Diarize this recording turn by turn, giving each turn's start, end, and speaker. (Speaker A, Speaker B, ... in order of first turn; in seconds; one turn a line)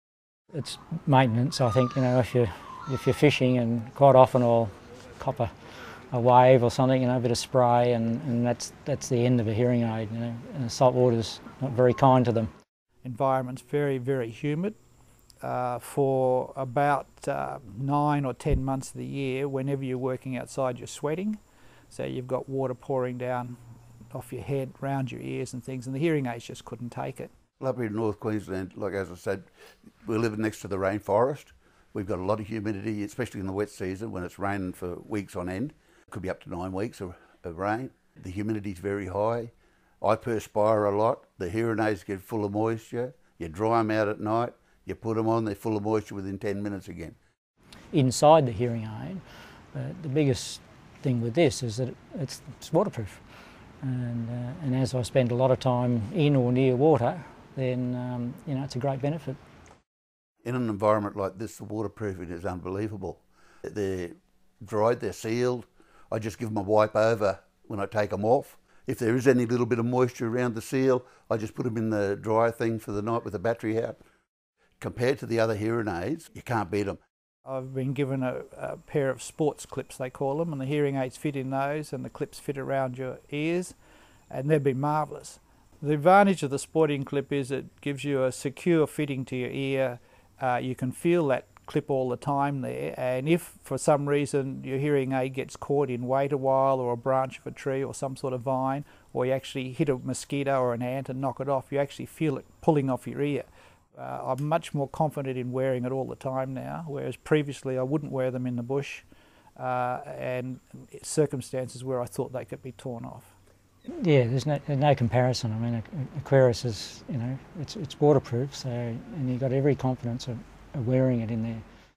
Speaker A: 0.5-5.5
Speaker A: 6.1-12.5
Speaker B: 13.0-14.8
Speaker B: 15.4-21.4
Speaker B: 21.9-23.6
Speaker B: 24.1-27.3
Speaker C: 27.6-29.5
Speaker C: 30.0-47.2
Speaker A: 47.9-53.2
Speaker A: 53.8-59.4
Speaker C: 60.4-74.0
Speaker C: 74.8-77.0
Speaker B: 77.5-83.8
Speaker B: 84.3-113.3
Speaker A: 113.9-121.6